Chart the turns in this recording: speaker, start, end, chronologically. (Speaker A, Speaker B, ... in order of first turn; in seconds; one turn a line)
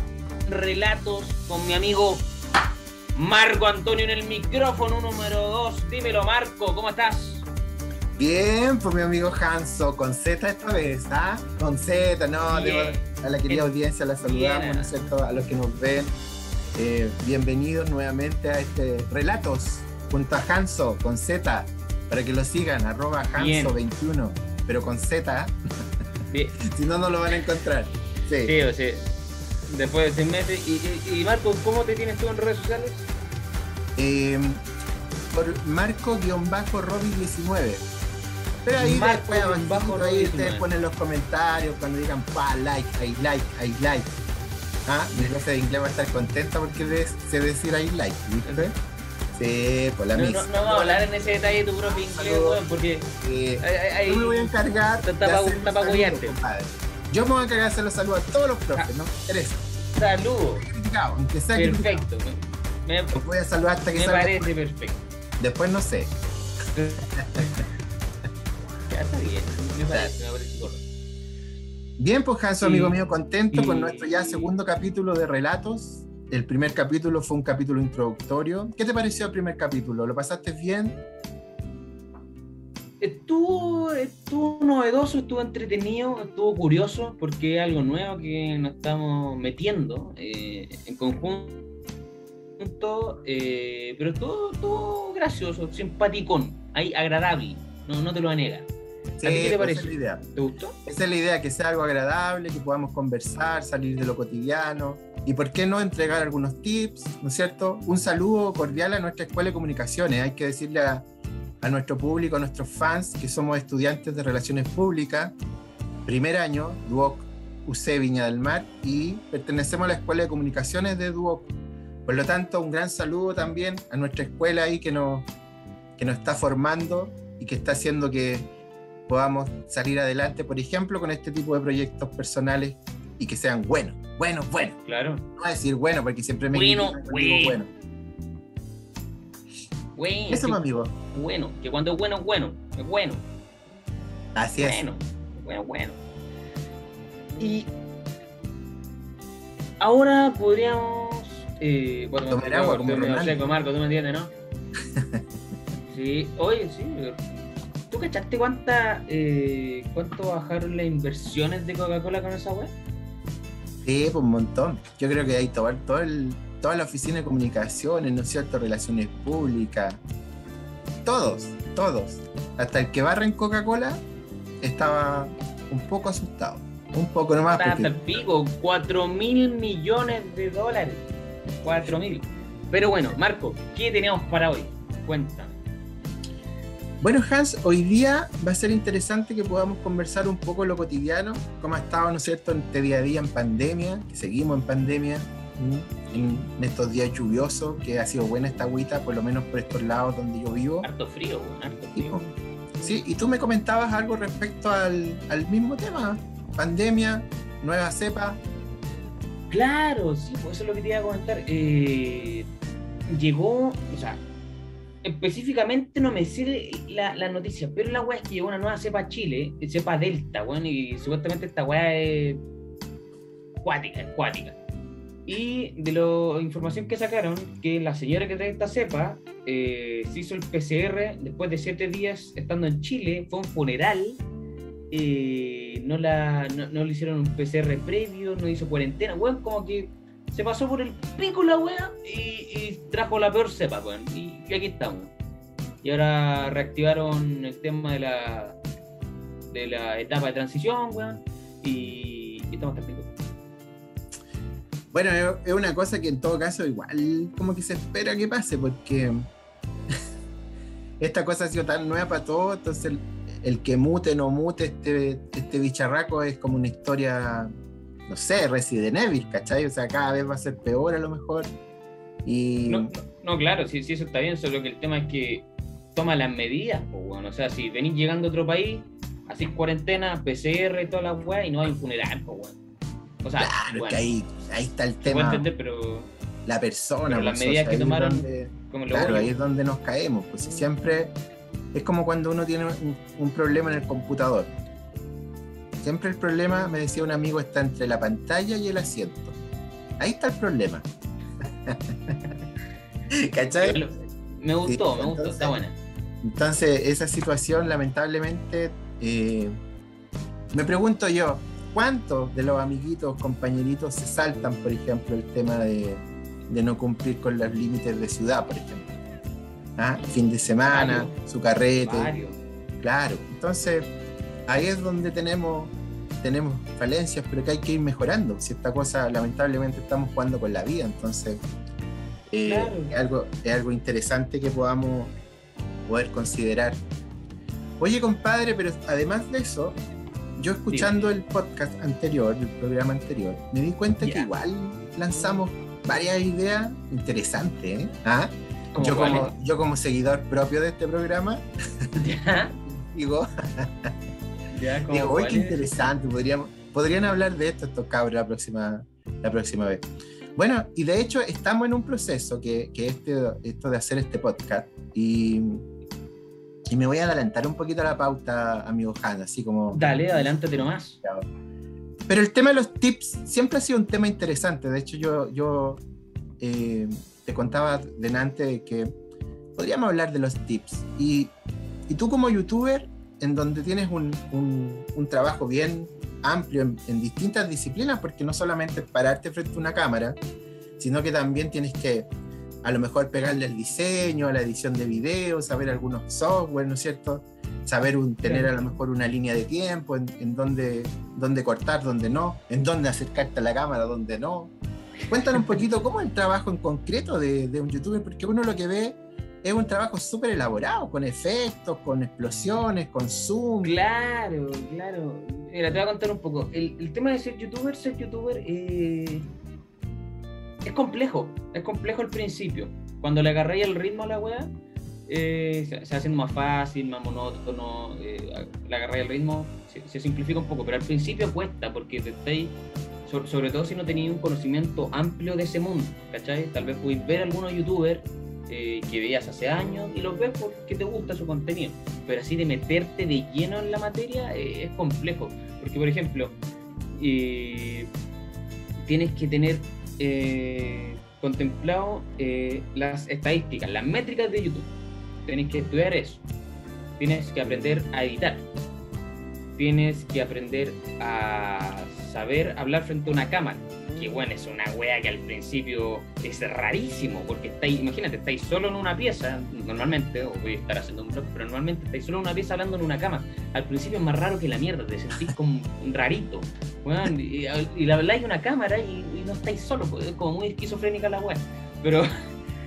Speaker A: 0.5-2.3
Speaker A: 3.1-7.5
Speaker B: 8.2-16.2
Speaker A: 12.5-14.9
Speaker B: 16.8-25.6
Speaker A: 23.4-23.8
Speaker A: 26.3-26.6
Speaker B: 26.6-28.5
Speaker A: 28.4-29.1
Speaker A: 29.7-33.1
Speaker B: 34.0-34.6
Speaker B: 35.3-37.9
Speaker B: 38.6-44.1
Speaker A: 38.8-40.6
Speaker B: 44.9-48.8
Speaker A: 48.4-48.7
Speaker B: 49.3-51.1
Speaker A: 50.1-53.1
Speaker B: 51.8-59.7
Speaker A: 53.6-56.4
Speaker A: 59.9-60.7
Speaker B: 60.6-62.0
Speaker A: 61.5-63.2
Speaker B: 63.1-64.5
Speaker A: 63.9-65.0
Speaker B: 65.4-66.1
Speaker A: 66.8-67.5
Speaker B: 67.1-67.4
Speaker A: 68.9-70.8
Speaker B: 72.0-81.0
Speaker A: 72.6-73.0
Speaker A: 73.5-74.5
Speaker A: 83.0-91.6
Speaker A: 92.6-98.7
Speaker B: 99.2-100.2
Speaker A: 99.2-100.8
Speaker B: 100.8-111.1
Speaker B: 111.6-115.3
Speaker B: 116.1-121.5
Speaker B: 122.1-125.3
Speaker B: 126.0-128.5
Speaker B: 129.1-134.8
Speaker A: 134.7-135.3
Speaker B: 135.4-137.7
Speaker A: 136.5-137.6
Speaker A: 140.0-143.3
Speaker B: 140.3-140.9
Speaker B: 144.3-144.8
Speaker A: 144.6-146.0
Speaker A: 147.4-147.7
Speaker A: 149.8-154.3
Speaker B: 152.3-153.4
Speaker B: 155.0-155.2
Speaker A: 155.9-162.7
Speaker B: 163.8-170.0
Speaker B: 171.1-174.0
Speaker B: 174.6-178.0
Speaker A: 177.5-181.1
Speaker A: 181.6-185.6
Speaker B: 187.0-200.9
Speaker A: 200.8-202.3
Speaker B: 201.9-202.2
Speaker B: 202.8-208.4
Speaker A: 209.5-212.5
Speaker A: 213.1-214.2
Speaker A: 215.0-222.4
Speaker A: 223.6-224.6
Speaker A: 225.3-234.2
Speaker A: 234.9-245.1
Speaker A: 245.8-248.6
Speaker A: 249.5-253.1
Speaker B: 254.9-259.3
Speaker B: 261.0-267.5
Speaker B: 268.1-271.5
Speaker B: 272.2-272.9
Speaker A: 272.7-282.6
Speaker A: 283.2-284.0
Speaker B: 283.4-285.5
Speaker A: 285.0-286.1
Speaker B: 286.5-291.1
Speaker A: 287.1-289.3
Speaker B: 291.7-294.6
Speaker B: 295.8-299.4
Speaker B: 300.0-300.9
Speaker B: 301.4-302.2
Speaker B: 303.1-303.8
Speaker A: 303.6-305.8
Speaker B: 304.7-305.6
Speaker B: 306.2-309.5
Speaker B: 310.5-318.9
Speaker B: 319.8-322.1
Speaker A: 320.6-321.2
Speaker A: 321.8-322.4
Speaker B: 322.8-323.9
Speaker B: 324.5-331.4
Speaker B: 332.3-335.2
Speaker A: 332.4-333.0
Speaker B: 335.9-336.8
Speaker B: 337.8-339.8
Speaker B: 340.4-351.9
Speaker A: 340.7-341.1
Speaker A: 344.0-344.3
Speaker A: 348.7-349.3
Speaker A: 351.9-352.6
Speaker B: 352.6-353.9
Speaker A: 354.5-355.6
Speaker B: 354.9-365.6
Speaker B: 366.7-371.3
Speaker A: 369.7-371.0
Speaker B: 372.1-375.8
Speaker B: 376.4-378.9
Speaker B: 379.6-381.3
Speaker B: 381.9-390.2
Speaker B: 390.8-392.1
Speaker B: 392.6-404.5
Speaker A: 398.2-398.6
Speaker B: 405.1-413.7
Speaker A: 413.6-419.3
Speaker A: 420.6-424.5
Speaker A: 425.1-446.4
Speaker A: 446.9-447.9
Speaker A: 448.9-454.7
Speaker A: 455.3-456.2
Speaker A: 457.0-458.5
Speaker A: 459.6-482.1